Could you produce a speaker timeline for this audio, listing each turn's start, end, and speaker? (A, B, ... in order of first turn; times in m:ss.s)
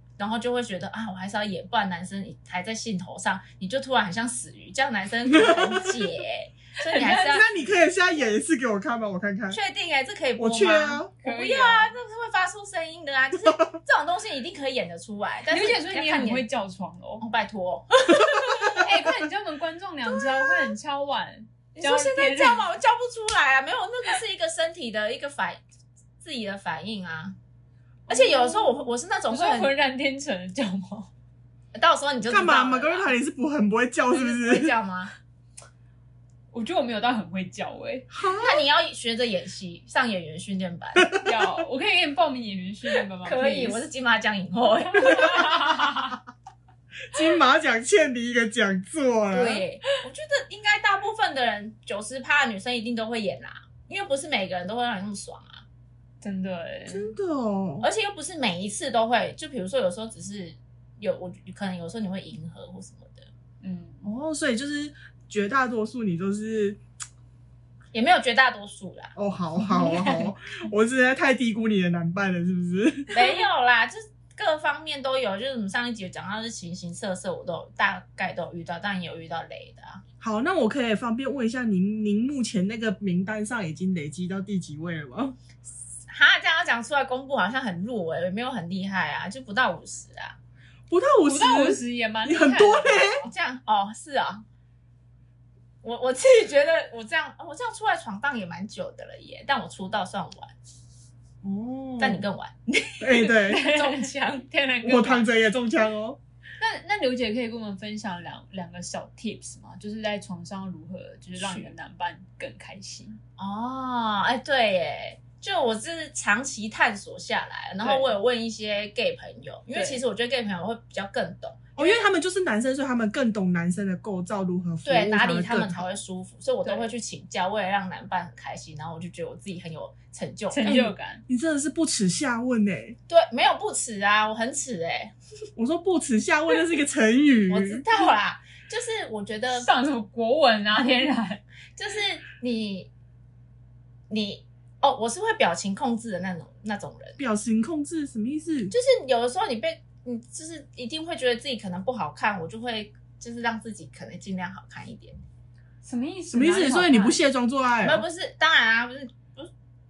0:00.2-0:07.5 A
0:05.3-0:06.0 B
0:06.9-0:07.4 C
0:07.0-0:09.6 B
0:09.5-0:16.5 A
0:10.4-0:11.1 B
0:11.2-0:11.9 C
0:15.5-0:17.2 C
0:17.2-0:18.9 A
0:18.6-0:22.7 C
0:21.8-0:25.6 A
0:26.2-0:27.4 A
0:28.1-0:29.7 A
0:28.2-0:28.7 C
0:29.3-0:31.1 C
0:31.7-0:33.1 A
0:32.3-0:34.8 B
0:34.1-0:35.2 A
0:36.5-0:38.1 C
0:38.1-0:38.6 B
0:38.2-0:41.2 A
0:41.0-0:41.4 B
0:41.2-0:43.8 C
0:43.2-0:45.8 A
0:45.0-0:46.2 C
0:47.1-0:49.6 B
0:49.3-0:55.6 A
0:56.2-0:57.1 C
0:56.9-0:57.9 B
0:57.8-1:03.3 A
1:03.6-1:04.1 C
1:04.0-1:06.8 B
1:07.9-1:09.1 A
1:09.2-1:13.1 B
1:09.7-1:10.3 C
1:13.1-1:20.0 A
1:20.2-1:25.4 B
1:26.1-1:30.4 A
1:30.9-1:33.2 B
1:31.2-1:33.3 C
1:33.2-1:34.4 A
1:35.8-1:40.5 A
1:41.4-1:42.3 B
1:42.0-1:44.5 A
1:43.0-1:43.7 B
1:43.4-1:45.3 C
1:44.8-1:46.2 B
1:46.6-1:53.2 C
1:51.4-1:51.7 A
1:53.4-2:02.0 A
1:57.8-1:58.1 C
1:59.8-2:00.0 C
2:01.8-2:05.9 B
2:04.8-2:10.9 A
2:06.6-2:06.9 C
2:10.5-2:11.2 C
2:10.7-2:13.0 B
2:13.1-2:15.1 A
2:15.6-2:17.8 B
2:17.5-2:19.7 A
2:19.6-2:21.4 C
2:21.8-2:22.9 A
2:24.1-2:27.2 A
2:27.2-2:28.7 B
2:28.7-2:35.2 A
2:35.8-2:37.2 C
2:36.3-2:38.0 B
2:37.8-2:39.5 A